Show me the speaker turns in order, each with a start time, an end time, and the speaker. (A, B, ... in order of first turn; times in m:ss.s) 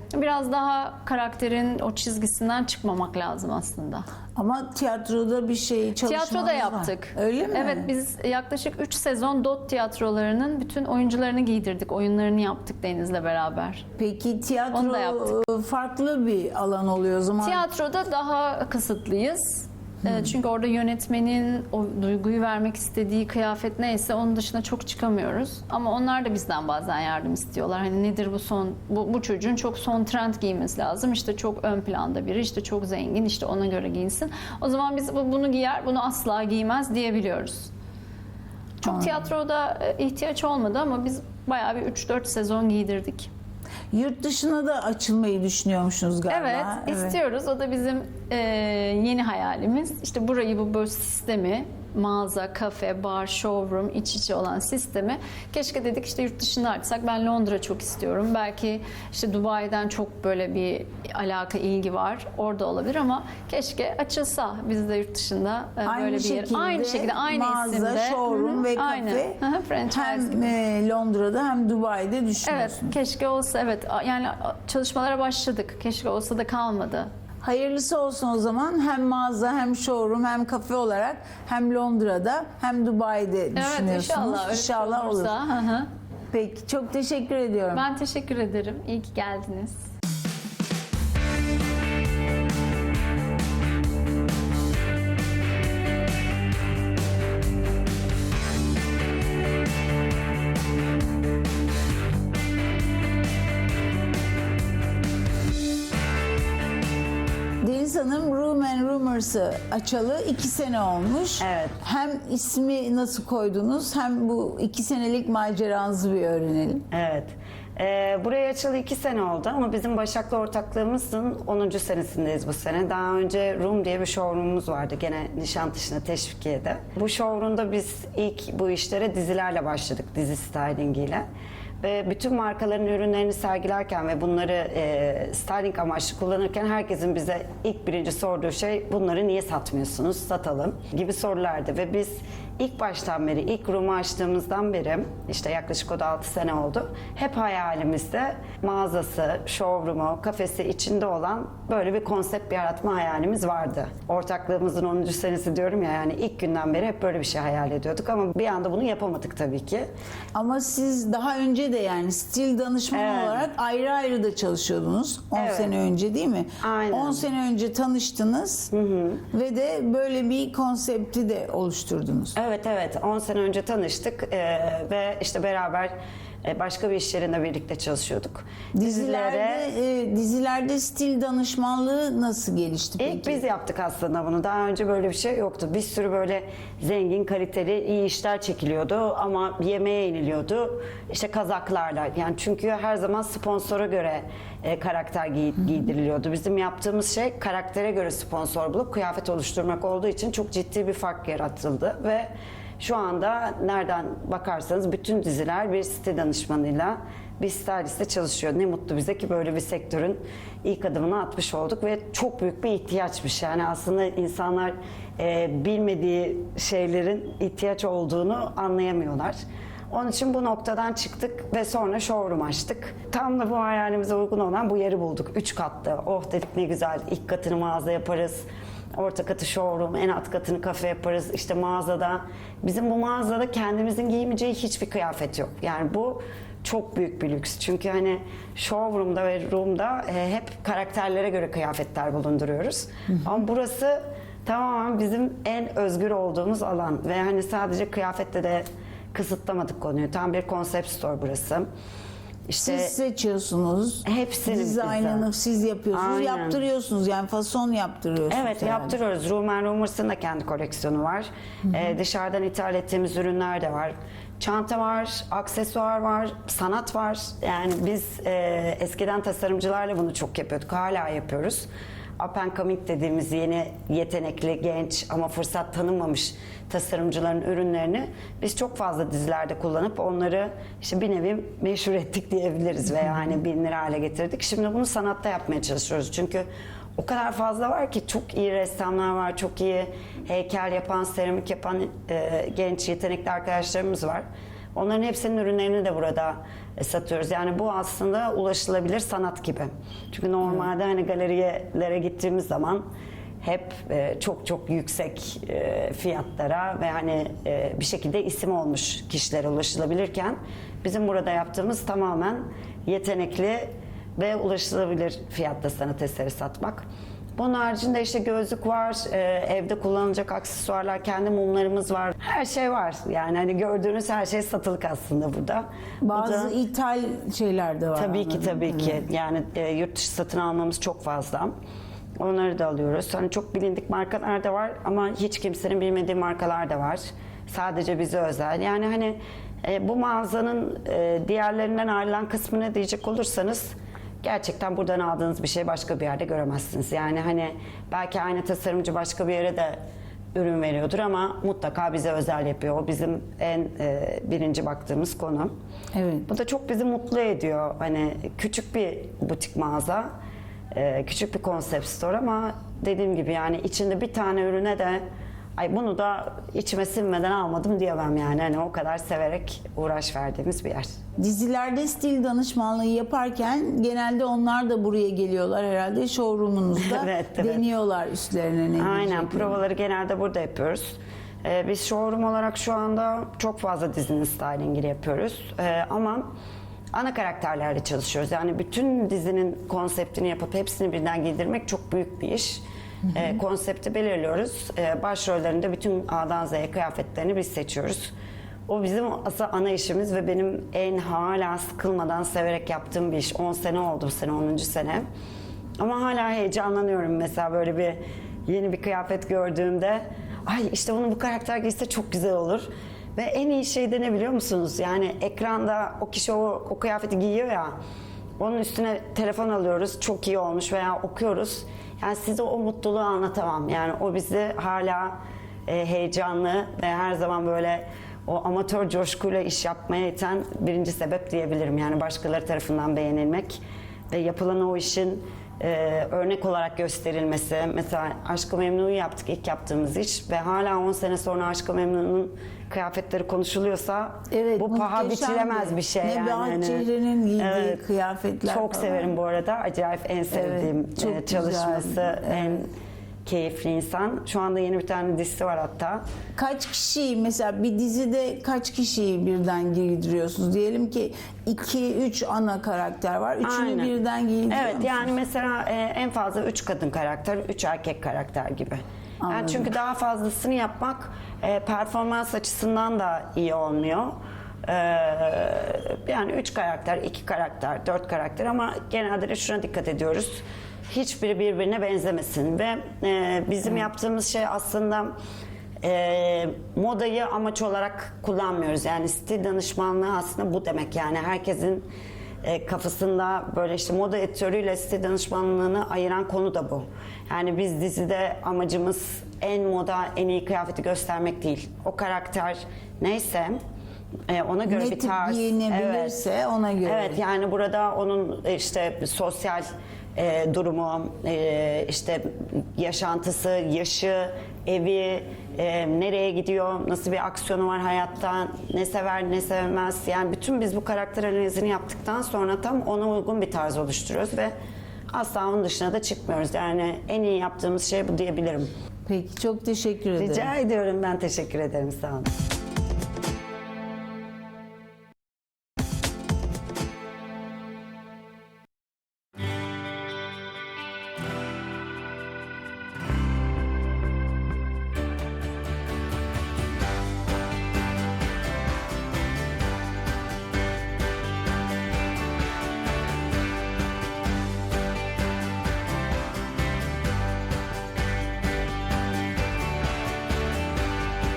0:00.1-0:04.0 A
0:04.4-0:07.9 B
0:06.0-0:13.8 A
0:14.0-0:17.6 B
0:14.7-0:15.3 A
0:17.4-0:37.7 A
0:20.0-0:20.3 B
0:38.8-0:43.3 A
0:38.8-0:39.2 B
0:43.9-0:47.2 B
0:46.3-1:10.5 A
1:05.8-1:12.9 B
1:12.4-1:17.1 A
1:17.4-1:25.4 B
1:23.5-1:25.9 A
1:26.3-1:27.8 B
1:27.7-1:29.9 A
1:47.6-1:56.8 B
1:51.4-1:51.7 C
1:56.9-2:11.2 C
2:11.8-2:39.9 C
2:40.3-2:48.7 B
2:42.9-2:43.4 C
2:45.3-2:45.7 C
2:46.6-2:47.2 C
2:48.7-2:49.2 C
2:49.3-2:52.4 B
2:52.4-2:59.6 C
2:58.7-3:03.4 B
3:03.0-3:22.3 C
3:22.8-3:39.4 C
3:39.9-3:48.4 C
3:48.9-4:11.7 C
4:12.5-4:12.9 C
4:12.6-4:18.9 B
4:14.0-4:15.2 C
4:15.9-4:16.6 C
4:18.3-4:31.7 C
4:32.2-5:02.9 C
5:03.4-5:16.8 C
5:17.4-5:26.5 C
5:26.0-5:29.0 B
5:28.0-5:31.5 C
5:32.2-5:49.8 C
5:50.3-5:55.5 C
5:55.9-5:56.3 B
5:56.3-6:00.1 C
6:00.7-6:05.0 C
6:05.6-6:10.9 C
6:11.2-6:19.6 B
6:16.8-6:17.6 C
6:18.8-6:26.3 C
6:26.9-6:38.1 C
6:38.7-6:45.0 C
6:45.8-6:57.7 C
6:58.4-7:26.9 C
7:24.3-7:29.1 B
7:27.4-7:27.8 C
7:28.4-7:32.7 C
7:30.3-7:32.6 B
7:33.2-7:36.0 C
7:36.4-7:45.1 B
7:43.4-7:43.9 C
7:44.5-8:05.1 C
7:49.2-7:49.7 B
8:05.8-8:11.9 C
8:12.4-8:23.6 C
8:24.3-8:26.2 C
8:24.6-8:27.2 B
8:26.8-8:44.5 C
8:45.1-8:48.7 C
8:49.0-8:50.5 B
8:50.2-8:52.3 C